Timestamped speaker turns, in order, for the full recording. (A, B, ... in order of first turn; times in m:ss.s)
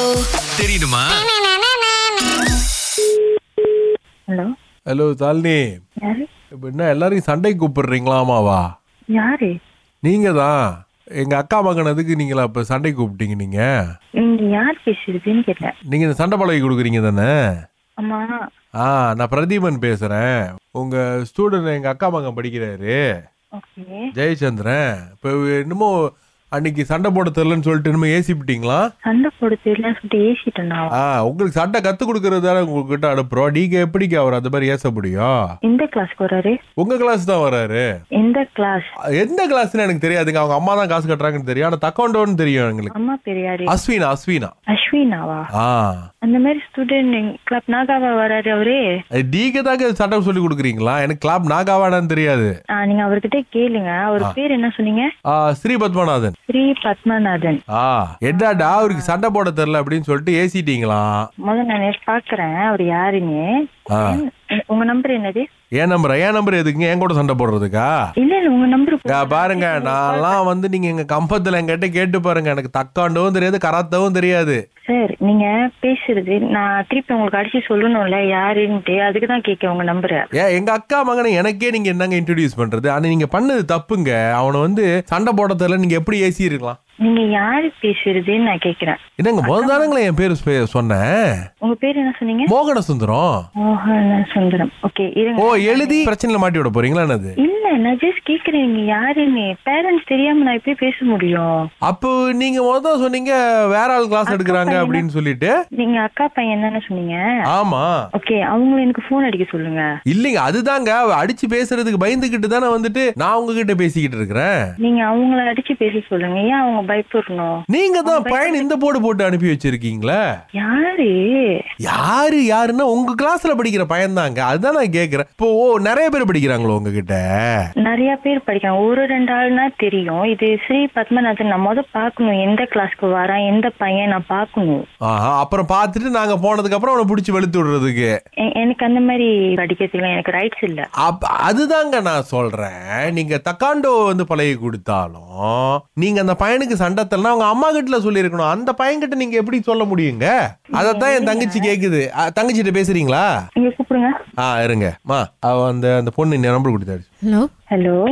0:00.4-0:01.3 A
0:04.9-0:05.6 A
0:06.6-0:08.6 A
0:09.2-0:09.5 B
0:10.0-0:10.6 A
0:11.2-0:13.7 A
0:14.2-0:15.7 B
0:15.9-0:17.3 A
0:18.0-0:18.4 B
0:18.8-0:23.0 A
0:23.6-0:24.1 B
0:24.2-0:25.9 A
0:26.6-0:28.9 A
0:29.0-0:31.0 B
0:31.0-0:35.3 A
0:35.7-0:36.6 B
0:36.8-0:37.8 A
0:38.2-0:38.9 B
0:39.2-0:42.9 A
0:42.9-0:43.8 B
0:43.7-0:44.5 A
0:44.7-0:45.5 B
0:45.6-0:46.0 A
0:46.2-0:48.8 B
0:49.2-0:52.5 A
0:52.8-0:55.1 B
0:55.3-0:56.3 A
0:56.5-0:57.6 B
0:57.7-1:01.2 A
0:58.3-0:59.2 B
1:01.5-1:05.4 B
1:03.9-1:04.2 A
1:05.8-1:07.9 A
1:08.2-1:10.4 B
1:09.1-1:14.6 A
1:14.9-1:20.2 B
1:20.4-1:26.8 A
1:27.0-1:29.9 B
1:29.2-1:31.1 A
1:31.6-1:32.5 B
1:32.5-1:33.3 A
1:33.6-1:36.1 B
1:35.4-1:37.3 A
1:37.4-1:41.5 B
1:41.9-1:45.5 A
1:44.3-1:45.0 B
1:45.8-1:47.2 B
1:47.5-1:47.9 A
1:48.2-1:49.8 B
1:50.1-1:54.5 A
1:54.8-1:58.7 B
1:57.7-2:00.2 A
2:00.6-2:01.1 B
2:01.8-2:07.2 A
2:07.8-2:14.8 B
2:15.1-2:18.1 A
2:18.5-2:20.9 B
2:21.0-2:33.3 A
2:30.8-2:31.7 B
2:33.6-2:34.1 B
2:34.4-2:37.0 A
2:37.7-2:38.0 B